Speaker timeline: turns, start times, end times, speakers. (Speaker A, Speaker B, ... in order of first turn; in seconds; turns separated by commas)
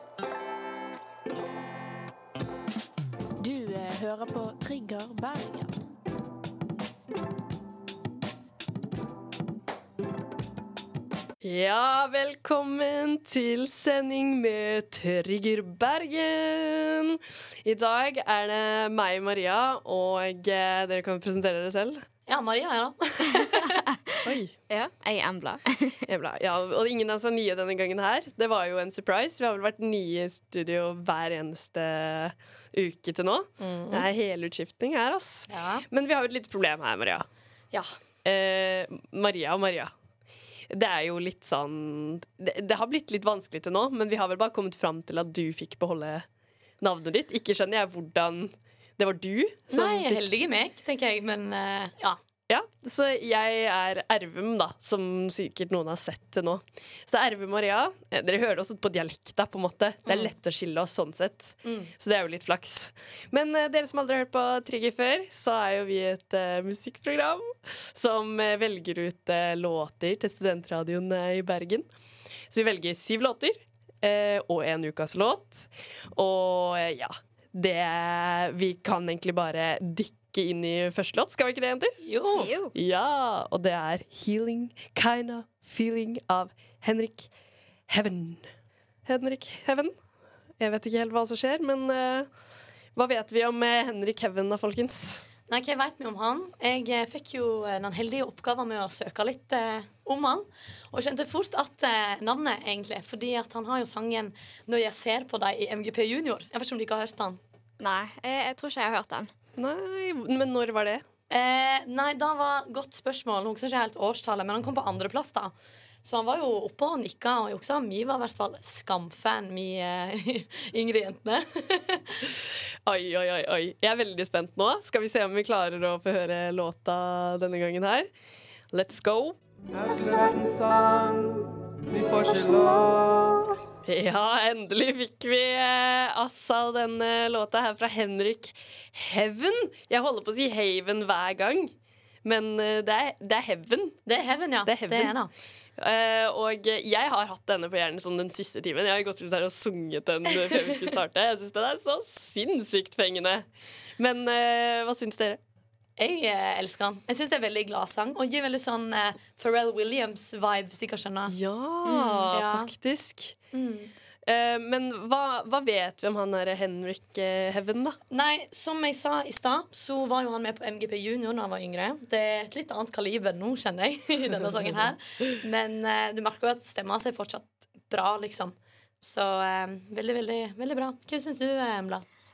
Speaker A: 3.4-5.7, Speaker B: 11.4-22.1, Speaker C: 22.3-23.8, Speaker B: 24.2-24.5, Speaker D: 24.7-26.0, Speaker B: 26.1-37.3, Speaker C: 33.6-34.1, Speaker C: 35.5-35.8, Speaker B: 38.2-39.9, Speaker B: 40.7-46.3, Speaker B: 46.8-50.4, Speaker C: 49.7-52.2, Speaker B: 52.5-71.9, Speaker C: 60.0-60.3, Speaker C: 61.6-61.9, Speaker B: 72.5-82.0, Speaker C: 82.0-82.5, Speaker D: 82.3-82.7, Speaker B: 82.7-87.3, Speaker B: 87.9-88.5, Speaker B: 89.0-89.9, Speaker B: 90.6-92.3, Speaker B: 92.9-95.2, Speaker C: 95.5-107.4, Speaker D: 107.8-109.3, Speaker B: 109.6-111.0, Speaker C: 111.3-122.2, Speaker B: 122.8-128.1, Speaker B: 128.7-129.4, Speaker A: 129.7-133.6, Speaker B: 133.8-141.7, Speaker B: 142.2-144.0, Speaker C: 144.1-145.3, Speaker B: 144.7-145.2, Speaker B: 145.8-153.5, Speaker B: 154.0-155.4, Speaker C: 156.0-162.7, Speaker B: 161.3-163.4, Speaker C: 163.5-163.9, Speaker B: 164.2-168.0, Speaker C: 168.1-182.0